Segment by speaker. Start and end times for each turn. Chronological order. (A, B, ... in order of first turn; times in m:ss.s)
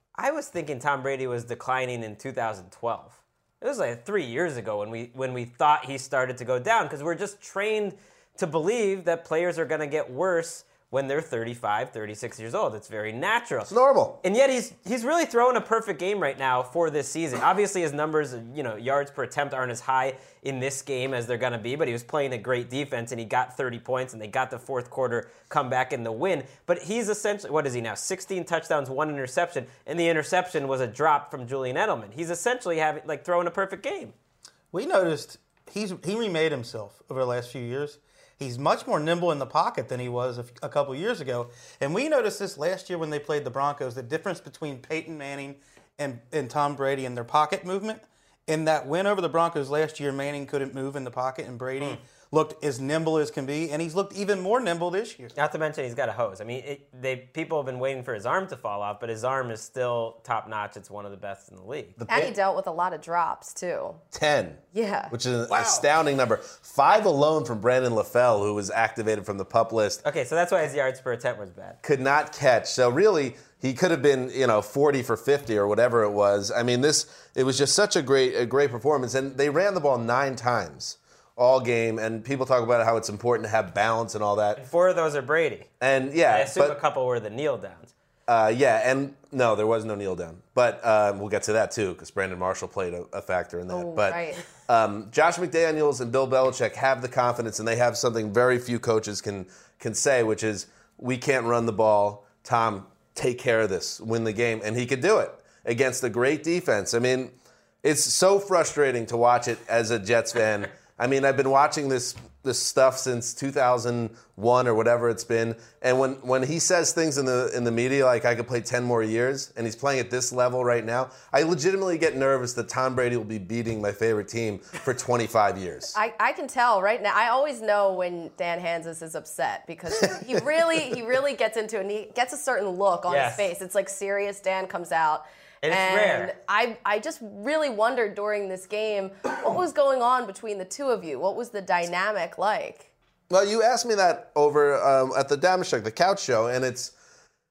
0:00.2-0:13.7 A
0:13.7-0:14.2 B
0:14.2-0:34.1 A
0:34.7-0:55.3 C
0:55.3-1:02.0 A
1:02.0-1:02.3 B
1:02.1-1:04.0 D
1:04.1-1:10.0 B
1:04.7-1:05.1 D
1:05.5-1:05.8 A
1:10.0-1:11.8 A
1:11.8-1:24.6 B
1:24.6-1:25.7 A
1:25.8-1:26.8 B
1:26.3-1:27.9 A
1:28.3-2:05.9 B
1:33.7-1:34.4 D
2:05.9-2:22.9 D
2:13.1-2:13.5 A
2:15.6-2:16.3 A
2:23.3-2:26.9 B